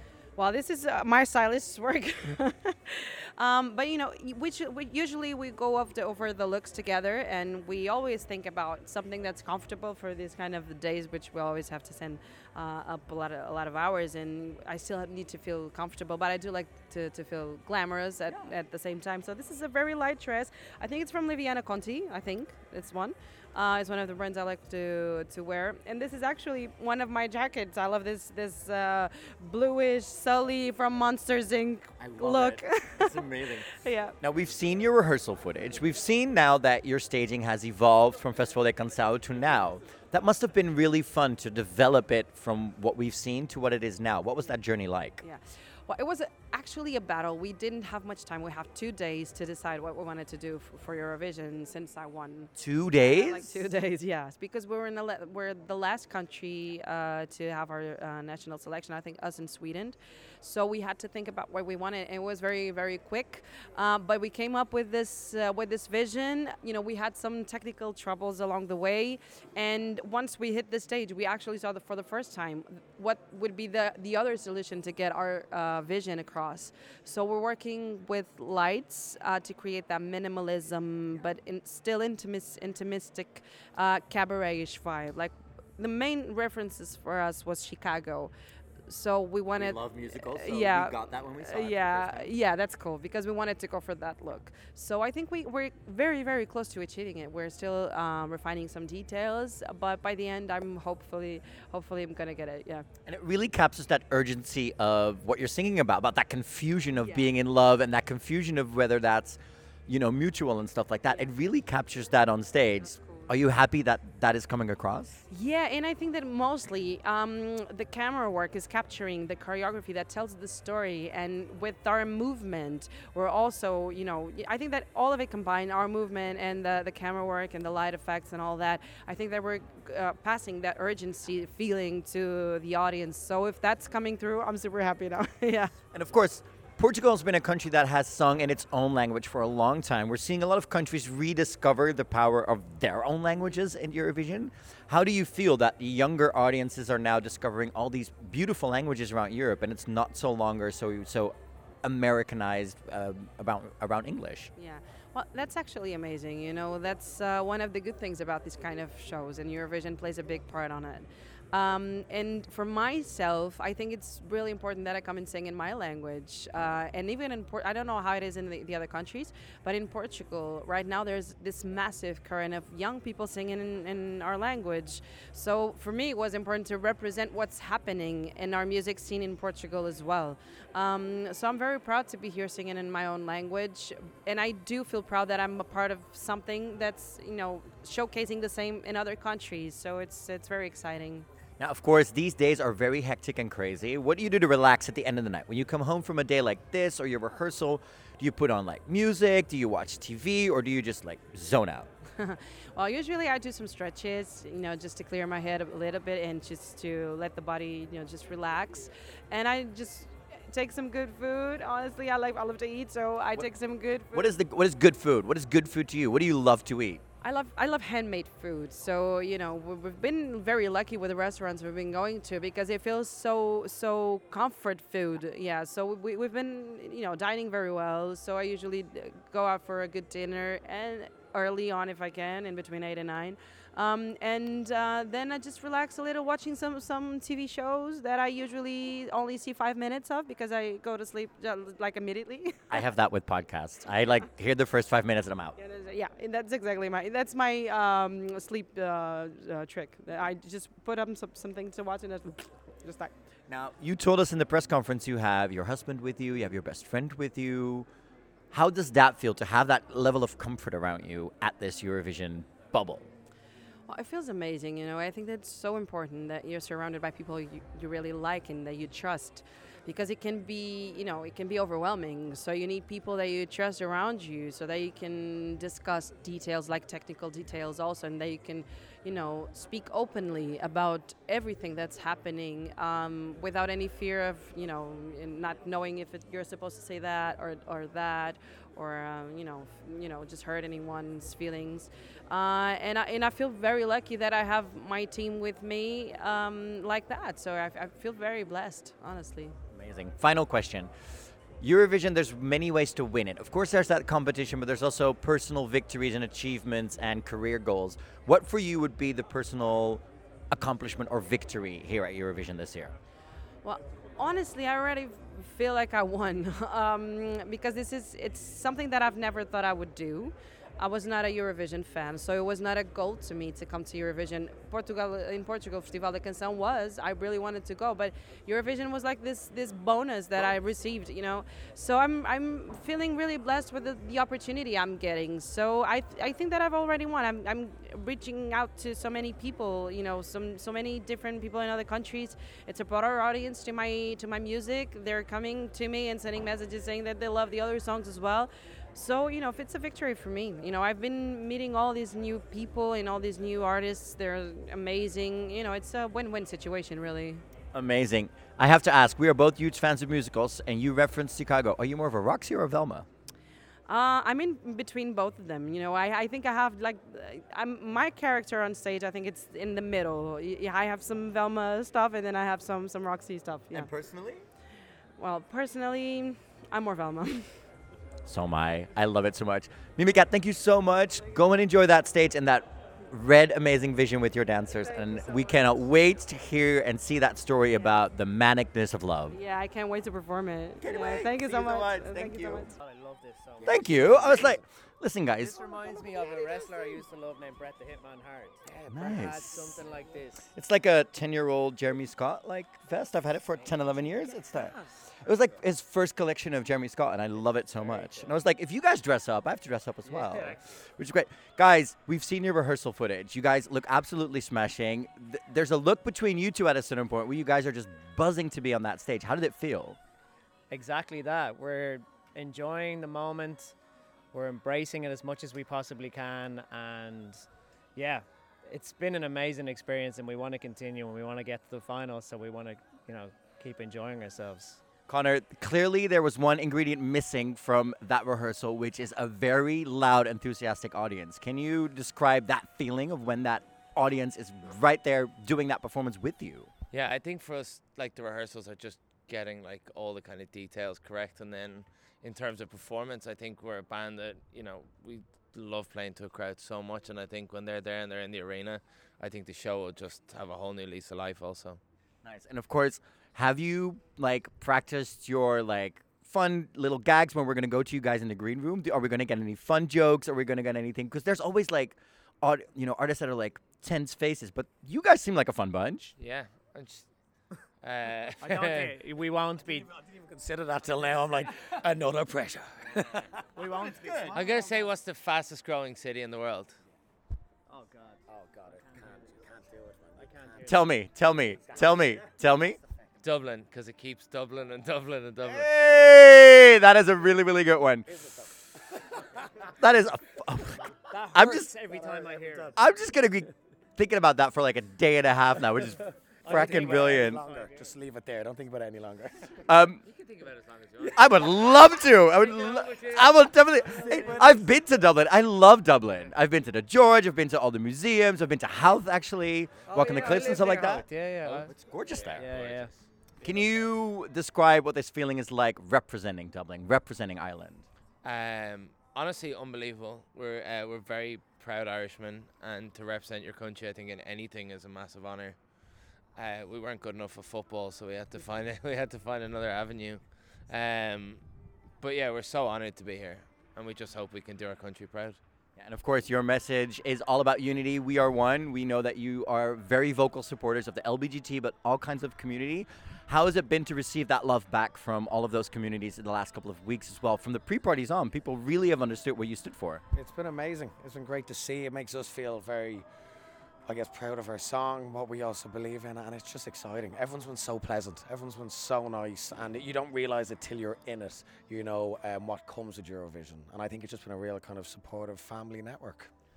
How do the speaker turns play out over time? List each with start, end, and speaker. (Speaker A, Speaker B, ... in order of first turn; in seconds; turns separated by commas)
Speaker A: 0.4-33.3, Speaker B: 32.0-45.2, Speaker A: 33.8-34.1, Speaker A: 45.2-88.3, Speaker B: 52.6-53.6, Speaker A: 88.9-102.8, Speaker B: 89.5-92.3, Speaker B: 103.1-115.2, Speaker A: 107.0-107.2, Speaker A: 112.8-113.3, Speaker A: 115.3-135.7, Speaker B: 135.9-154.5, Speaker A: 154.6-191.3, Speaker B: 191.6-201.9, Speaker A: 202.2-214.3, Speaker B: 214.1-217.0, Speaker A: 217.2-242.8, Speaker B: 242.7-245.6, Speaker A: 245.6-253.1, Speaker B: 253.5-257.9, Speaker B: 258.5-263.1, Speaker A: 263.9-299.6, Speaker B: 299.7-300.9, Speaker B: 301.6-312.9, Speaker A: 313.6-357.4, Speaker B: 357.7-363.1, Speaker A: 363.9-373.9, Speaker B: 373.7-374.4, Speaker A: 375.2-377.5, Speaker B: 378.2-389.4, Speaker A: 389.3-392.7, Speaker B: 390.8-392.7, Speaker C: 392.8-394.6, Speaker B: 393.6-395.6, Speaker C: 395.4-400.5, Speaker D: 396.0-396.9, Speaker D: 398.7-399.3, Speaker B: 398.9-399.8, Speaker B: 400.5-420.0, Speaker C: 407.8-408.3, Speaker C: 410.1-410.6, Speaker C: 420.7-423.8, Speaker C: 424.3-434.8, Speaker B: 435.1-446.7, Speaker E: 446.9-461.8, Speaker B: 462.2-476.1, Speaker E: 476.2-477.1, Speaker E: 477.8-478.9, Speaker C: 478.4-479.9, Speaker D: 479.9-484.4, Speaker C: 483.6-484.7, Speaker E: 484.3-486.8, Speaker C: 487.7-488.2, Speaker D: 488.3-490.8, Speaker C: 488.8-489.1, Speaker C: 490.2-490.7, Speaker B: 490.6-492.8, Speaker D: 491.6-492.1, Speaker E: 493.2-495.7, Speaker B: 495.5-498.1, Speaker D: 498.1-498.5, Speaker B: 499.8-501.8, Speaker C: 501.1-502.8, Speaker D: 501.8-502.7, Speaker B: 502.7-507.4, Speaker C: 506.4-507.9, Speaker D: 506.5-509.5, Speaker B: 509.6-510.0, Speaker E: 510.4-511.1, Speaker B: 511.0-522.5, Speaker C: 512.4-513.2, Speaker C: 513.9-514.7, Speaker C: 519.9-523.6, Speaker E: 521.5-523.0, Speaker B: 523.4-527.9, Speaker E: 528.2-541.5, Speaker E: 542.0-545.4, Speaker B: 545.8-560.0, Speaker D: 560.1-563.1, Speaker D: 563.8-576.3